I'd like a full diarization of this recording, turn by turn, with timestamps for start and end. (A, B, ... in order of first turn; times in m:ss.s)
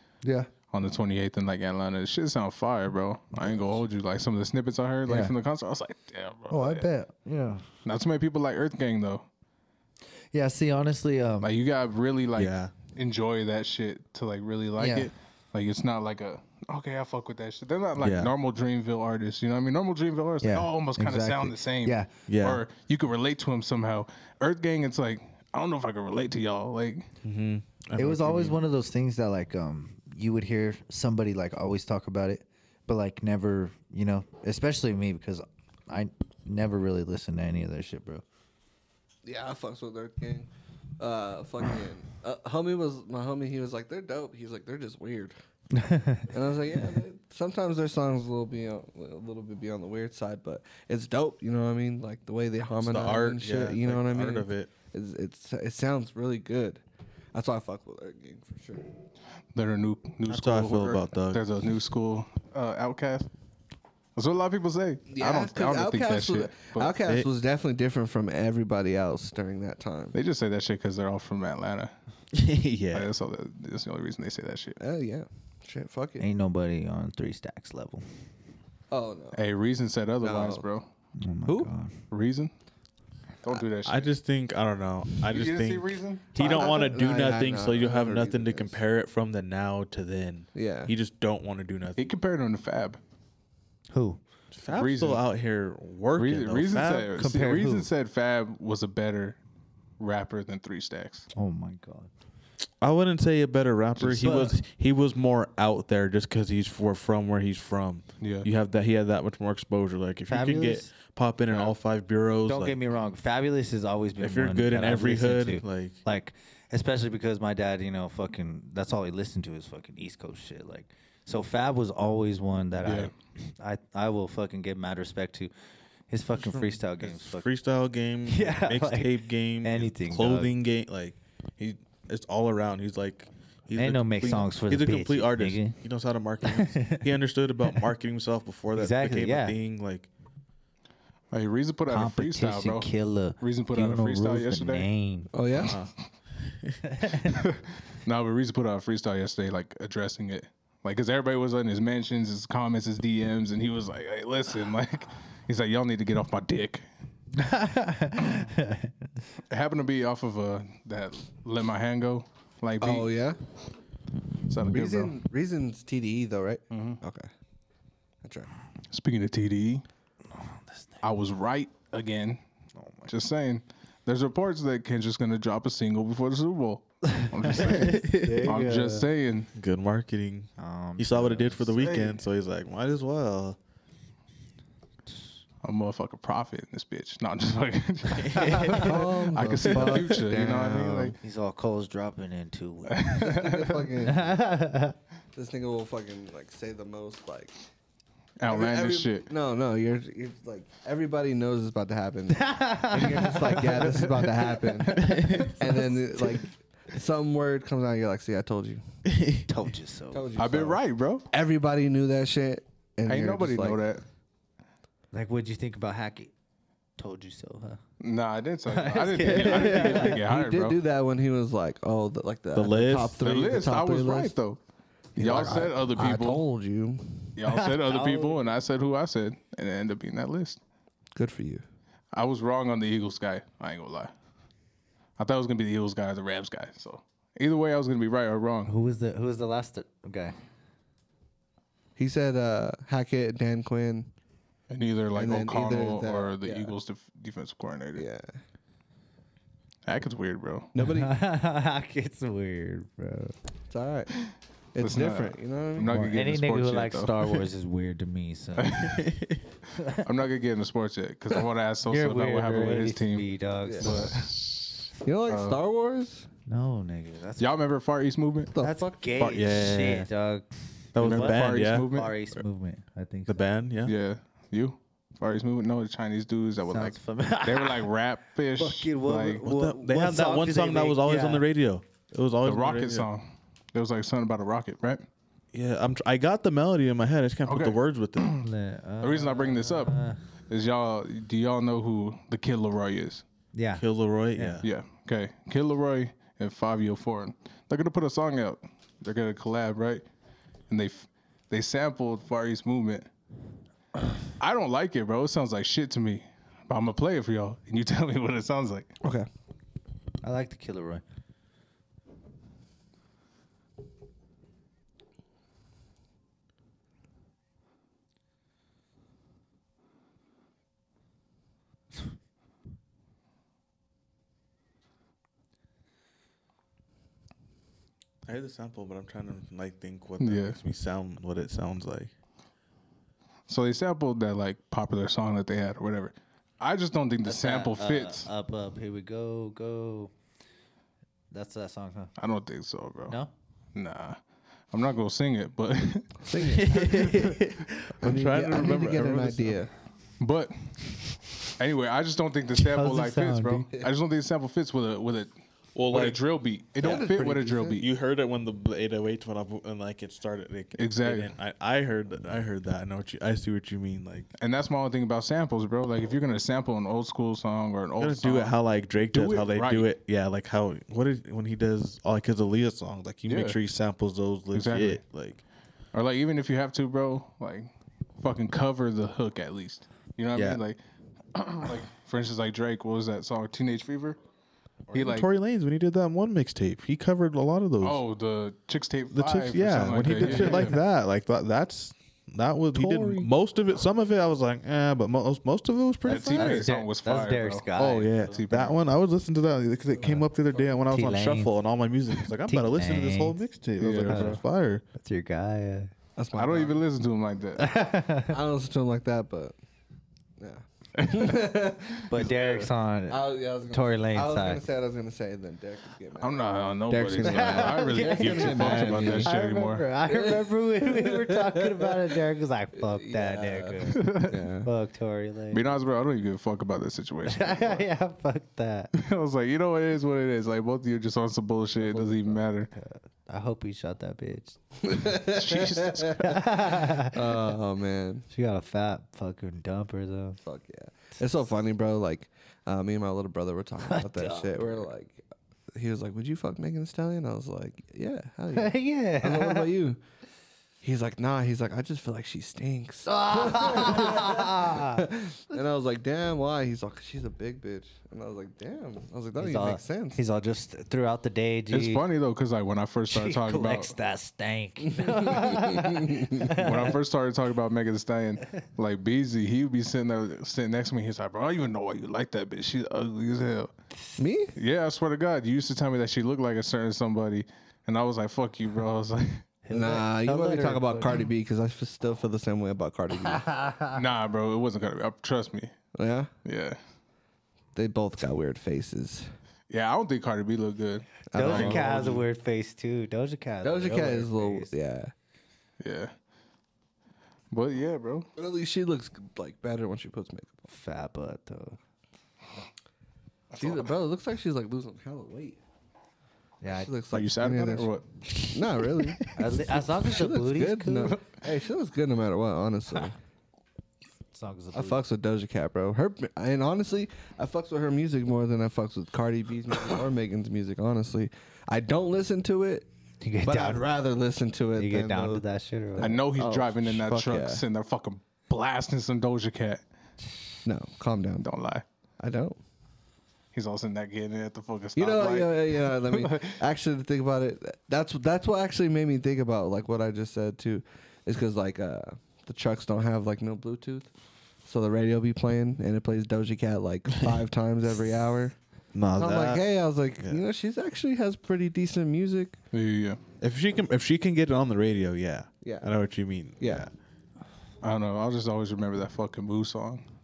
0:00.2-0:00.5 A
0:00.7-0:06.9 B
0:05.1-0:05.3 A
0:06.5-0:07.6 A
0:07.8-0:09.3 B
0:10.3-0:11.5 A
0:11.4-0:27.1 B
0:12.4-0:12.7 C
0:14.8-0:15.1 A
0:18.0-0:18.3 C
0:20.4-0:22.1 A
0:22.3-0:22.6 C
0:27.2-0:28.6 C
0:28.0-0:38.2 A
0:39.2-0:45.3 D
0:45.7-0:46.3 A
0:46.3-0:56.8 D
0:52.8-0:54.7 C
0:57.3-0:58.9 D
0:59.5-1:03.3 B
1:00.3-1:01.4 C
1:04.2-1:07.0 B
1:05.1-1:10.2 D
1:10.1-1:11.9 B
1:12.3-1:13.1 C
1:12.9-1:14.8 B
1:14.8-1:16.2 D
1:16.2-1:18.0 A
1:18.9-1:19.4 D
1:19.3-1:20.9 B
1:20.2-1:20.6 D
1:21.2-1:21.9 A
1:22.1-1:22.5 B
1:23.4-1:24.1 B
1:23.8-1:32.1 C
1:25.3-1:26.7 B
1:26.4-1:28.8 D
1:30.6-1:30.9 D
1:32.0-1:33.0 B
1:33.9-1:34.2 A
1:34.5-1:37.2 C
1:34.7-1:35.2 B
1:36.2-1:39.4 B
1:37.2-1:37.9 A
1:40.0-1:41.3 B
1:41.4-1:42.1 A
1:42.8-1:52.8 C
1:44.0-1:44.5 B
1:44.2-1:44.6 A
1:48.2-1:48.5 B
1:50.3-1:50.9 A
1:51.5-1:51.8 B
1:52.5-2:05.5 A
1:54.2-1:56.0 C
2:02.8-2:03.1 B
2:06.1-2:07.5 A
2:06.4-2:20.1 C
2:08.3-2:10.5 A
2:13.8-2:15.8 A
2:16.4-2:17.1 A
2:18.8-2:19.6 A
2:21.3-2:22.9 B
2:21.9-2:25.3 A
2:23.4-2:24.9 B
2:25.3-2:25.8 D
2:25.6-2:25.9 C
2:26.5-2:26.8 C
2:26.9-2:27.4 A
2:27.3-2:36.8 B
2:37.4-2:38.9 A
2:39.5-2:43.1 B
2:42.8-2:43.4 D
2:44.5-2:45.1 B
2:44.6-2:47.3 D
2:46.7-2:47.0 B
2:48.2-2:48.5 D
2:48.9-2:49.8 B
2:51.0-2:52.4 B
2:52.8-2:53.1 A
2:53.0-2:59.5 B
2:57.2-2:59.0 A
2:57.6-2:58.5 C
2:59.6-3:03.6 C
3:00.6-3:02.0 A
3:01.8-3:02.2 B
3:05.6-3:11.2 B
3:08.2-3:09.0 C
3:08.4-3:08.8 A
3:08.8-3:11.2 D
3:09.7-3:10.0 C
3:11.2-3:13.2 A
3:12.9-3:13.9 B
3:13.2-3:14.4 D
3:14.1-3:15.0 A
3:15.4-3:17.6 D
3:18.4-3:19.3 B
3:18.5-3:28.8 D
3:22.3-3:24.9 A
3:24.9-3:25.4 B
3:25.0-3:25.6 C
3:29.1-3:29.5 C
3:29.5-3:30.3 A
3:30.1-3:33.8 D
3:30.4-3:31.2 B
3:33.1-3:34.0 B
3:35.1-3:36.3 A
3:37.0-3:37.8 A
3:38.0-3:40.8 B
3:38.7-3:40.2 A
3:39.3-3:44.3 D
3:39.4-3:40.0 C
3:42.6-3:43.2 C
3:43.2-3:44.6 B
3:45.2-3:46.4 B
3:45.2-3:47.4 D
3:47.4-3:50.6 B
3:47.5-3:48.4 A
3:51.1-3:51.6 D
3:52.1-3:54.1 B
3:55.2-3:58.7 B
3:58.7-4:00.4 A
4:02.0-4:04.1 D
4:04.7-4:08.1 B
4:05.2-4:06.8 D
4:08.0-4:08.4 D
4:09.9-4:10.7 B
4:10.7-4:11.2 D
4:10.8-4:13.4 A
4:13.7-4:14.1 D
4:14.8-4:16.1 D
4:14.8-4:17.4 B
4:15.9-4:18.9 A
4:18.6-4:19.1 B
4:19.0-4:19.4 C
4:20.0-4:23.3 B
4:21.9-4:24.2 A
4:23.6-4:24.1 D
4:23.8-4:25.6 B
4:25.0-4:26.3 D
4:26.5-4:27.5 A
4:27.4-4:28.5 B
4:28.5-4:29.0 D
4:28.6-4:33.4 A
4:29.2-4:30.1 C
4:30.9-4:32.4 C
4:31.0-4:32.1 B
4:33.3-4:33.9 C
4:33.8-4:39.4 B
4:36.7-4:37.9 A
4:38.6-4:41.4 A
4:39.4-4:43.1 C
4:42.4-4:45.0 B
4:45.5-4:48.4 C
4:47.5-4:48.4 B
4:48.4-4:50.2 A
4:49.0-4:53.2 B
4:53.5-4:53.8 A
4:53.8-4:54.7 C
4:54.4-4:54.6 A
4:54.6-5:00.0 B
5:00.7-5:03.1 B
5:04.4-5:08.9 B
5:09.0-5:09.3 D
5:10.2-5:11.0 A
5:28.3-5:32.1 C
5:30.2-5:30.6 B
5:33.5-5:38.3 B
5:37.2-5:40.1 A
5:41.3-5:42.1 A
5:42.2-5:43.2 B
5:43.8-5:44.2 B
5:44.7-5:47.4 B
5:46.2-5:46.8 D
5:46.4-5:49.6 C
5:48.0-5:49.7 D
5:50.2-5:50.9 B
5:51.5-5:55.3 B
5:52.6-5:53.7 A
5:55.8-5:56.2 C
5:55.9-5:57.9 B
5:56.8-5:57.8 D
5:57.8-6:04.3 C
6:00.8-6:01.3 B
6:04.4-6:08.6 B
6:08.0-6:15.4 C
6:09.1-6:09.9 B
6:13.3-6:13.6 B
6:14.5-6:15.0 B
6:15.9-6:17.7 B
6:18.2-6:20.8 B
6:20.4-6:20.6 C
6:21.4-6:24.2 B
6:24.9-6:28.0 C
6:24.9-6:25.3 B
6:27.8-6:30.8 B
6:29.1-6:36.7 C
6:32.8-6:33.3 B
6:36.0-6:37.7 B
6:36.3-6:38.2 A
6:37.8-6:44.8 C
6:38.2-6:38.8 B
6:39.9-6:40.8 D
6:40.9-6:41.5 A
6:42.5-6:43.4 A
6:43.8-6:44.4 B
6:44.1-6:44.4 A
6:45.0-6:45.9 A
6:46.2-6:46.8 D
6:46.3-6:47.7 B
6:47.6-6:48.4 A
6:48.3-6:49.6 D
6:50.4-6:59.3 D
6:51.0-6:51.4 B
6:52.1-6:54.6 A
6:56.2-6:59.9 B
6:57.2-7:05.6 A
6:58.2-6:59.2 C
7:00.1-7:02.2 D
7:02.8-7:04.7 D
7:03.9-7:04.4 B
7:05.5-7:07.9 B
7:07.3-7:08.9 A
7:08.9-7:12.7 B
7:11.8-7:12.4 D
7:12.8-7:14.6 A
7:14.8-7:16.2 D
7:15.1-7:16.4 B
7:16.2-7:17.2 A
7:17.1-7:18.3 D
7:18.3-7:20.4 A
7:20.4-7:25.2 D
7:23.8-7:24.8 A
7:25.7-7:30.0 D
7:28.5-7:29.7 A
7:30.8-7:40.2 D
7:33.1-7:35.0 A
7:39.4-7:42.0 A
7:41.7-7:43.9 B
7:43.1-7:46.9 A
7:44.8-7:46.6 D
7:46.4-7:53.7 B
7:54.2-7:54.5 D
7:54.6-7:59.4 B
7:59.6-8:01.2 A
7:59.7-8:03.4 D
8:03.2-8:04.0 A
8:03.9-8:05.7 B
8:05.9-8:06.3 D
8:06.4-8:06.8 B
8:07.8-8:09.3 D
8:09.7-8:12.2 B
8:11.3-8:12.2 D
8:11.3-8:14.7 A
8:13.6-8:15.1 D
8:15.8-8:16.1 B
8:17.5-8:18.3 B
8:18.4-8:20.6 D
8:20.7-8:21.8 A
8:23.6-8:23.9 B
8:23.6-8:25.6 D
8:26.6-8:26.9 A
8:26.7-8:27.9 D
8:27.1-8:29.1 B
8:28.5-8:33.2 D
8:29.4-8:31.2 A
8:34.3-8:35.0 A
8:34.7-8:42.9 D
8:43.2-8:43.9 A
8:43.4-8:47.6 D
8:44.8-8:46.2 A
8:46.0-8:49.8 B
8:50.6-8:51.5 D
8:51.4-8:51.8 B
8:52.2-8:52.6 D
8:53.5-8:56.6 B
8:55.0-9:04.1 D
9:04.6-9:08.6 D
9:08.9-9:09.7 C
9:09.2-9:12.6 D
9:12.7-9:13.2 B
9:13.4-9:16.9 C
9:15.6-9:15.9 D
9:16.6-9:16.9 D
9:17.8-9:20.0 B